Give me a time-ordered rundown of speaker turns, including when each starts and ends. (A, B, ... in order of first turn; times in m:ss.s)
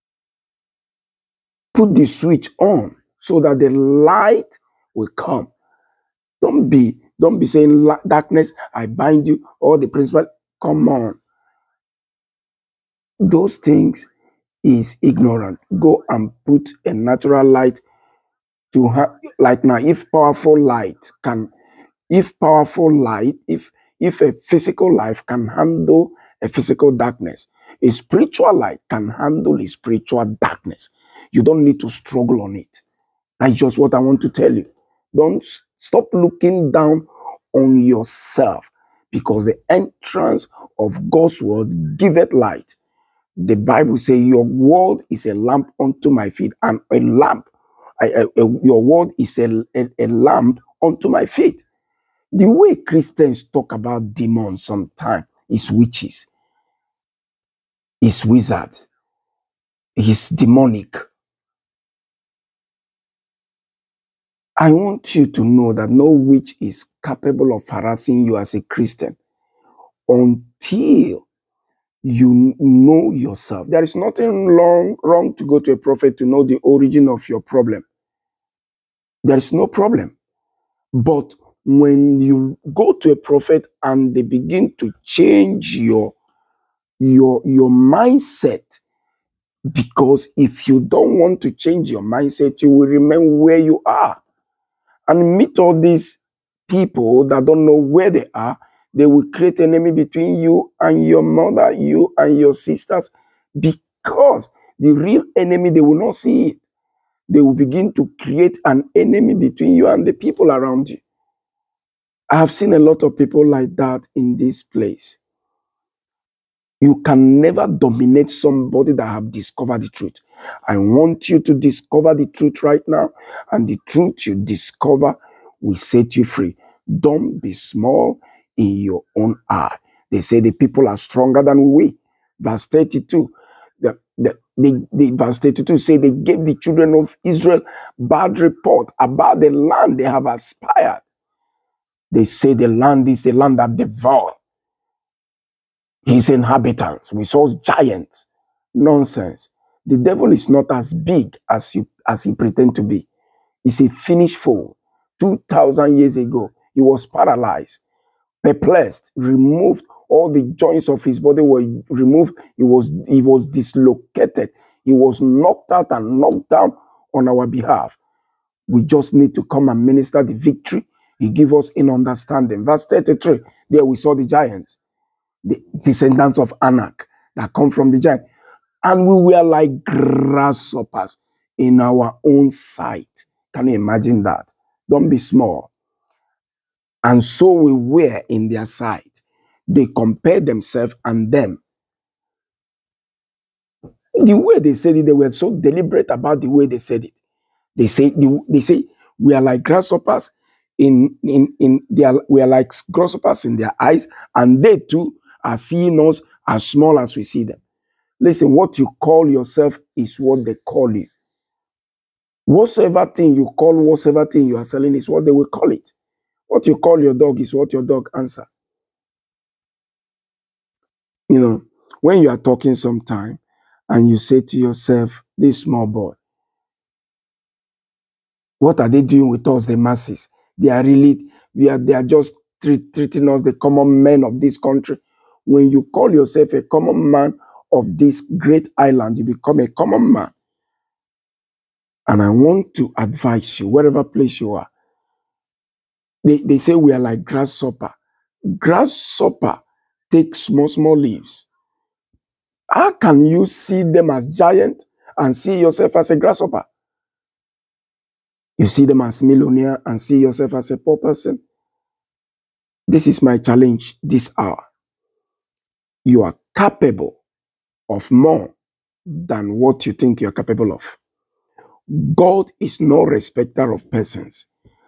0:01.7-0:05.5 A
0:06.4-0:11.2 A
0:13.2-0:14.1 A
0:14.6-0:17.8 A
0:18.7-0:21.5 A
0:22.1-0:32.8 A
0:33.4-0:42.8 A
0:43.4-0:47.5 A
0:48.0-0:51.6 A
0:52.3-0:56.3 A
0:58.0-0:58.8 A
1:00.0-1:01.0 A
1:04.6-1:09.2 A
1:10.1-1:11.2 A
1:12.0-1:17.8 A
1:19.2-1:20.1 A
1:21.0-1:26.1 A
1:27.0-1:28.8 A
1:29.7-1:34.2 A
1:35.1-1:46.6 A
1:47.3-1:51.0 A
1:52.3-1:55.2 A
1:56.8-2:21.0 A
2:22.1-2:24.4 A
2:26.0-2:33.1 A
2:33.6-2:37.8 A
2:38.4-2:48.0 A
2:48.7-2:54.8 A
2:55.4-2:58.2 A
2:58.8-3:05.7 A
3:07.0-3:11.6 A
3:14.2-3:17.2 A
3:17.8-3:27.6 A
3:28.2-3:31.1 A
3:32.5-3:35.9 A
3:36.5-3:38.5 A
3:41.3-3:46.2 A
3:48.6-4:00.3 A
4:02.1-4:04.7 A
4:06.2-4:07.9 A
4:08.5-4:11.5 A
4:12.7-4:16.7 A
4:18.6-4:21.4 A
4:22.9-4:24.6 A
4:26.0-4:27.2 A
4:27.9-4:28.5 A
4:29.1-4:31.0 A
4:31.9-4:34.5 A